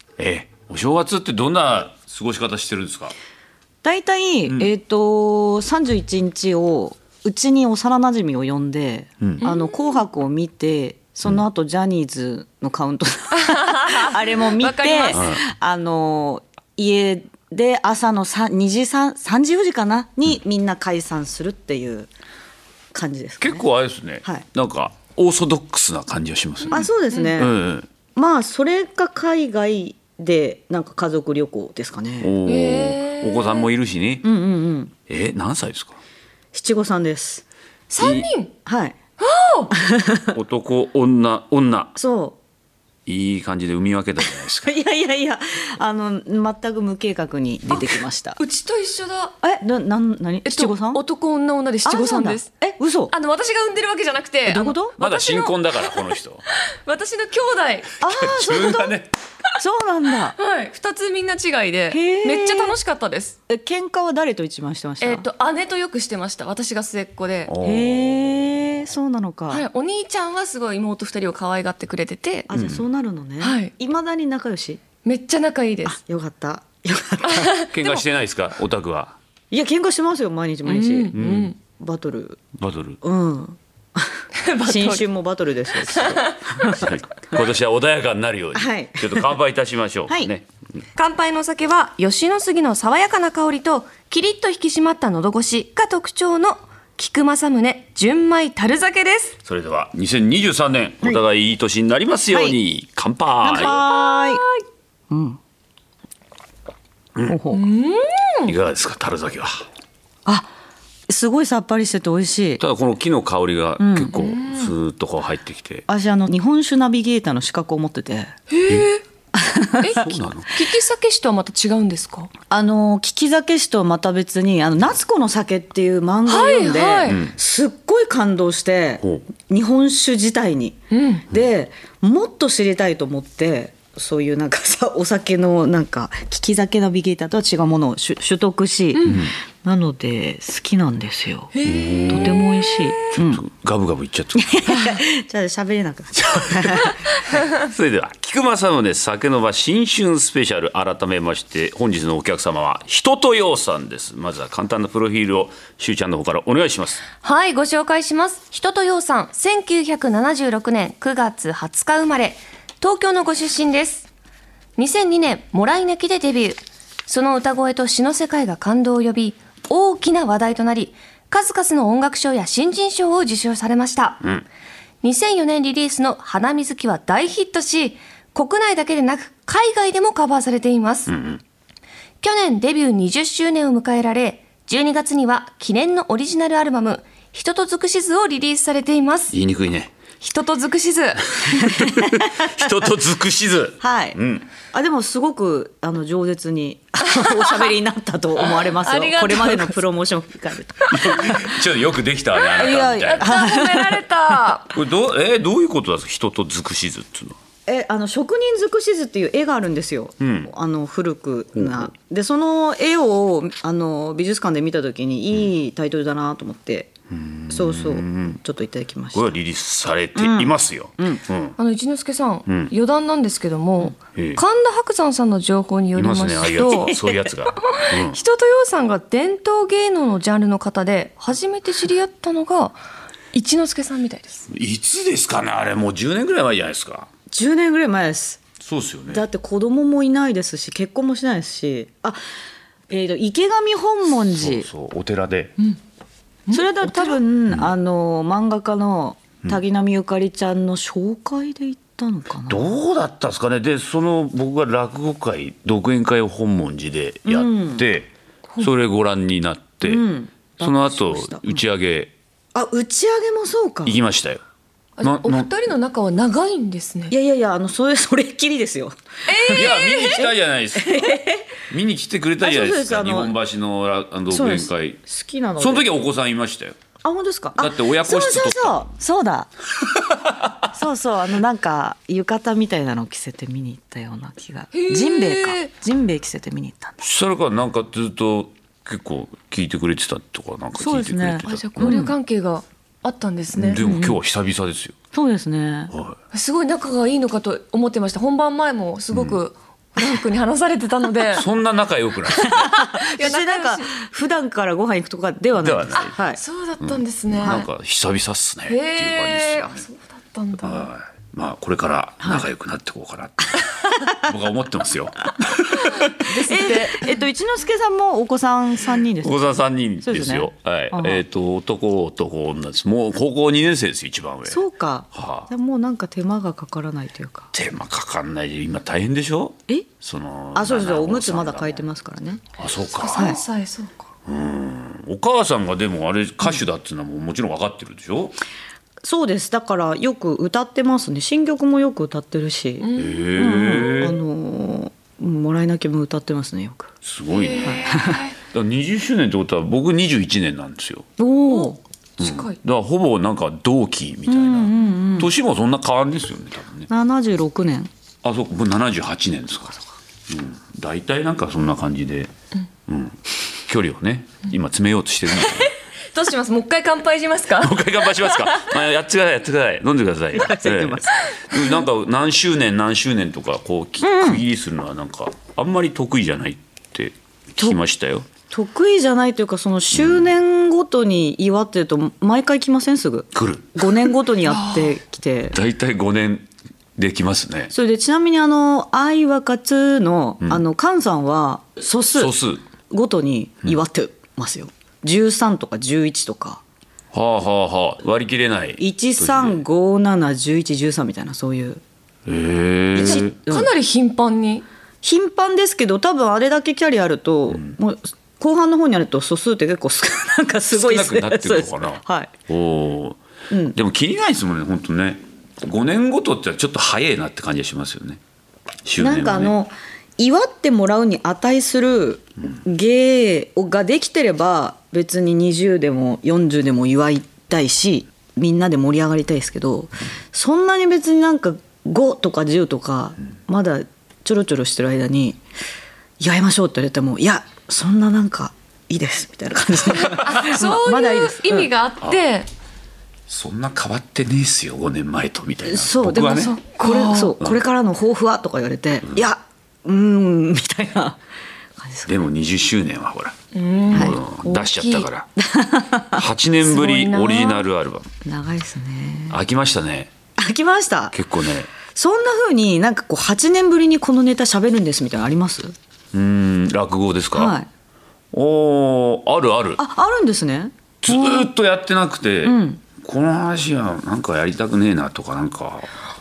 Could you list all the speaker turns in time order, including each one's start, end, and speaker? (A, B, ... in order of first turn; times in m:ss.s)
0:00.2-0:03.1 A
0:03.8-0:22.1 B
0:09.4-0:09.9 C
0:13.3-0:15.2 C
0:15.1-0:15.4 A
0:22.9-0:23.6 B
0:23.4-0:27.9 A
0:26.6-0:27.4 C
0:26.7-0:27.6 B
0:28.2-0:32.3 B
0:32.2-0:34.3 A
0:32.5-0:33.7 C
0:34.2-0:34.9 B
0:35.1-0:36.0 A
0:36.5-0:37.4 B
0:37.9-0:38.5 C
0:38.0-0:38.3 A
0:38.7-0:39.0 B
0:39.2-0:39.7 C
0:39.7-0:40.4 B
0:40.3-0:41.9 A
0:42.0-0:42.4 B
0:43.1-0:44.7 A
0:44.6-0:48.4 B
0:48.4-0:49.4 C
0:49.4-0:51.0 B
0:50.4-0:56.1 C
0:51.8-0:53.1 B
0:54.5-0:55.0 B
0:55.0-0:56.4 A
0:56.7-0:57.9 C
0:58.0-0:58.9 B
0:58.1-0:59.1 A
0:59.6-1:00.4 B
1:00.4-1:03.4 C
1:01.9-1:02.8 B
1:03.5-1:05.3 B
1:05.0-1:07.5 C
1:07.5-1:08.4 A
1:07.6-1:09.7 B
1:09.5-1:12.5 C
1:12.5-1:14.8 B
1:12.5-1:12.8 A
1:13.4-1:13.7 C
1:15.0-1:16.0 C
1:15.9-1:18.0 B
1:17.3-1:17.7 C
1:17.7-1:19.2 A
1:19.5-1:21.2 B
1:20.7-1:21.6 C
1:21.1-1:21.5 A
1:21.8-1:22.4 B
1:22.6-1:23.0 A
1:23.0-1:26.9 B
1:24.4-1:25.0 C
1:25.9-1:26.8 C
1:26.7-1:30.5 A
1:28.5-1:29.4 B
1:31.0-1:39.4 C
1:39.4-1:43.8 A
1:43.4-1:44.4 B
1:43.6-1:44.6 C
1:45.1-1:45.4 B
1:47.3-1:47.6 B
1:47.5-1:48.5 C
1:48.4-1:49.7 A
1:51.1-1:52.6 B
1:52.6-1:55.8 A
1:53.8-1:54.2 B
1:54.1-1:54.7 C
1:55.9-1:58.3 B
1:58.5-1:59.0 C
1:59.3-2:00.1 B
1:59.8-2:02.3 C
1:59.9-2:00.5 A
2:02.5-2:21.5 B
2:06.3-2:07.2 C
2:07.1-2:07.3 A
2:10.9-2:11.2 C
2:19.0-2:19.2 C
2:19.0-2:19.3 A
2:21.5-2:23.0 C
2:21.6-2:22.4 A
2:22.1-2:23.4 B
2:23.1-2:24.8 A
2:24.4-2:27.0 B
2:26.4-2:26.9 A
2:27.5-2:37.0 A
2:37.2-2:44.1 C
2:44.8-2:54.2 C
2:55.0-3:01.1 C
3:01.1-3:01.4 A
3:02.2-3:09.3 C
3:09.3-3:09.9 A
3:10.2-3:11.4 C
3:11.4-3:12.7 B
3:11.5-3:14.5 A
3:13.8-3:14.2 B
3:14.7-3:21.5 B
3:17.1-3:17.6 C
3:18.5-3:19.8 C
3:20.9-3:23.4 A
3:22.4-3:24.7 C
3:22.6-3:24.4 B
3:24.7-3:27.4 A
3:27.7-3:36.9 B
3:30.2-3:30.5 A
3:31.6-3:31.9 A
3:37.1-3:38.4 A
3:37.5-3:39.4 B
3:39.1-3:41.6 A
3:40.2-3:41.2 B
3:41.6-3:52.8 C
3:42.5-3:42.7 A
3:46.0-3:48.2 A
3:53.3-3:54.5 C
3:54.5-3:57.1 A
3:57.3-3:58.4 B
3:58.6-3:59.2 A
3:59.1-4:02.2 B
4:02.9-4:04.7 B
4:04.4-4:05.6 A
4:06.5-4:07.2 C
4:06.5-4:12.8 B
4:12.5-4:20.0 A
4:17.3-4:17.8 B
4:19.8-4:21.6 B
4:20.6-4:22.1 A
4:22.5-4:24.0 B
4:23.8-4:24.4 A
4:25.0-4:27.1 C
4:25.0-4:25.5 A
4:27.1-4:31.5 B
4:29.3-4:30.2 C
4:29.5-4:35.0 A
4:32.4-4:33.4 B
4:34.3-4:35.9 B
4:35.6-4:36.8 A
4:37.0-4:39.5 B
4:37.6-4:38.9 A
4:40.2-4:40.5 A
4:40.7-4:47.0 B
4:44.7-4:45.7 C
4:47.0-4:52.1 A
4:50.8-4:52.2 B
4:51.5-4:53.8 C
4:53.6-4:55.0 A
4:53.7-4:54.2 B
4:55.1-4:55.9 B
4:56.3-5:01.5 C
4:59.1-4:59.4 A
5:01.3-5:02.8 A
5:02.5-5:03.9 C
5:02.5-5:06.4 B
5:05.6-5:06.2 A
5:06.0-5:07.7 C
5:06.8-5:09.8 A
5:08.7-5:10.9 C
5:10.6-5:16.3 A
5:16.0-5:17.1 C
5:16.3-5:21.2 B
5:19.2-5:25.5 A
5:24.5-5:27.5 B
5:27.5-5:31.8 A
5:30.6-5:32.4 B
5:32.6-5:33.4 A
5:33.0-5:34.1 C
5:33.2-5:33.4 B
5:34.3-5:38.4 A
5:39.0-5:46.9 B
5:42.8-5:43.2 C
5:43.0-5:44.2 A
5:47.0-5:51.1 A
5:47.3-5:48.3 C
5:47.6-5:48.2 B
5:51.2-5:51.8 B
5:51.5-5:52.6 C
5:52.2-5:56.9 A
5:54.3-5:55.3 B
5:56.9-5:57.9 B
5:58.2-6:02.3 A
6:02.9-6:05.7 A
6:05.4-6:08.7 C
6:07.6-6:18.3 A
6:10.3-6:11.1 B
6:14.0-6:14.4 B
6:18.5-6:25.6 B
6:23.3-6:23.8 A
6:25.5-6:27.7 A
6:27.7-6:32.4 B
6:32.2-6:32.6 A
6:32.9-6:36.6 B
6:37.1-6:39.6 A
6:38.8-6:41.8 B
6:42.3-6:43.4 A
6:43.0-6:43.7 B
6:43.0-6:44.6 C
6:45.0-6:52.3 B
6:47.5-6:47.8 A
6:50.7-6:53.2 A
6:53.5-6:53.8 B
6:53.7-6:58.2 A
6:58.9-6:59.6 A
6:59.0-7:15.4 B
7:16.2-7:21.6 B
7:19.9-7:22.5 C
7:23.3-7:26.6 A
7:25.6-7:31.2 B
7:26.2-7:27.4 C
7:31.8-7:32.2 B
7:32.1-7:33.4 A
7:33.5-7:35.1 C
7:33.9-7:35.3 A
7:33.9-7:34.2 B
7:35.4-7:36.2 B
7:36.2-7:38.1 A
7:36.6-7:37.6 C
7:38.2-7:39.4 B
7:39.3-7:40.1 A
7:40.4-7:41.2 B
7:41.1-7:41.7 A
7:41.8-7:45.8 B
7:46.1-7:47.6 A
7:47.4-7:47.7 B
7:48.3-7:49.8 A
7:49.8-7:51.5 B
7:51.0-7:55.9 A
7:52.4-7:52.8 B